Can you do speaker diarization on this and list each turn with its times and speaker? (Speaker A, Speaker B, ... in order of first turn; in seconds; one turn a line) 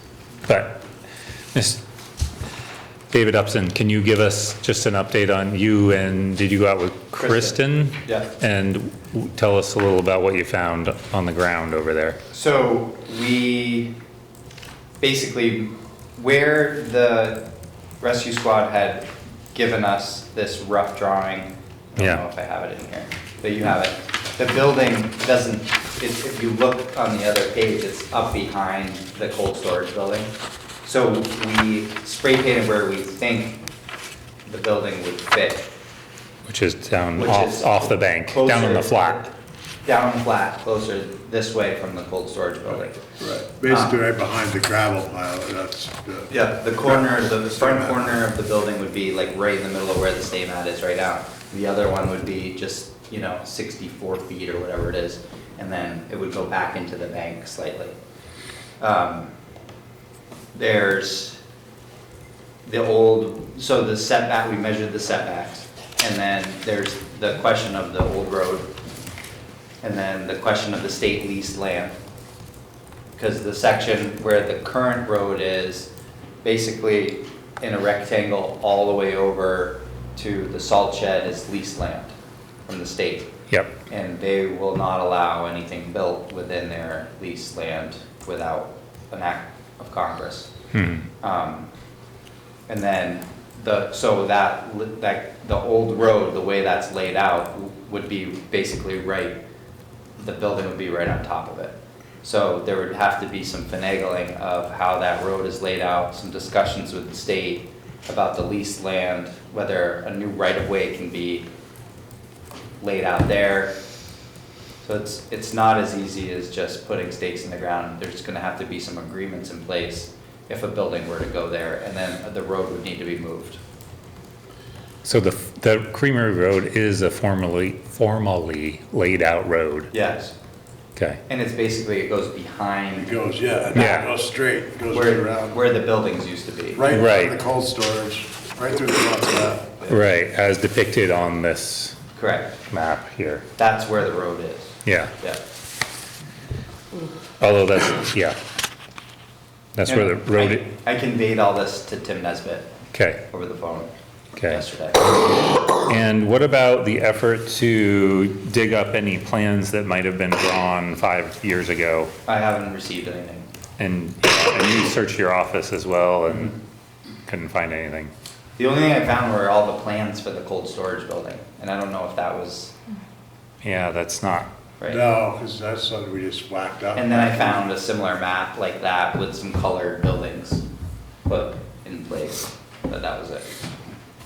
Speaker A: 0.5-0.8
Speaker A: 1.5-1.8
Speaker A: 3.1-12.2
Speaker B: 7.2-8.3
Speaker B: 12.3-13.9
Speaker B: 15.0-17.4
Speaker B: 18.0-30.3
Speaker A: 22.0-22.2
Speaker B: 30.8-33.6
Speaker B: 34.5-35.7
Speaker A: 36.5-39.2
Speaker B: 37.1-39.3
Speaker B: 39.8-43.1
Speaker C: 42.8-48.2
Speaker B: 43.7-44.0
Speaker B: 46.3-58.0
Speaker B: 58.8-59.3
Speaker B: 60.5-61.4
Speaker B: 62.6-68.7
Speaker B: 69.8-71.9
Speaker B: 73.2-75.9
Speaker B: 76.4-82.1
Speaker B: 82.7-83.3
Speaker A: 83.5-83.7
Speaker B: 83.9-90.5
Speaker A: 90.7-91.1
Speaker B: 91.2-91.7
Speaker B: 92.7-99.4
Speaker B: 100.2-111.5
Speaker B: 112.8-113.7
Speaker B: 114.8-123.6
Speaker A: 125.0-129.9
Speaker B: 129.9-130.3
Speaker B: 131.3-134.1
Speaker C: 132.9-135.6
Speaker A: 133.7-134.1
Speaker B: 134.9-136.9
Speaker C: 136.8-139.8
Speaker A: 136.9-137.4
Speaker A: 139.9-142.0
Speaker B: 142.2-142.6
Speaker A: 142.7-143.4
Speaker B: 143.6-145.4
Speaker A: 144.8-145.1
Speaker A: 147.4-148.4
Speaker A: 149.7-150.6
Speaker B: 149.8-152.7
Speaker A: 152.9-153.2
Speaker B: 153.3-153.9
Speaker A: 154.3-154.6
Speaker B: 154.4-155.1
Speaker A: 155.9-162.1
Speaker B: 162.2-163.5
Speaker A: 163.8-166.5
Speaker A: 167.2-168.1
Speaker B: 168.6-172.7
Speaker A: 173.6-174.5
Speaker B: 174.8-175.0
Speaker C: 174.9-177.6
Speaker B: 176.9-180.6
Speaker B: 181.2-183.7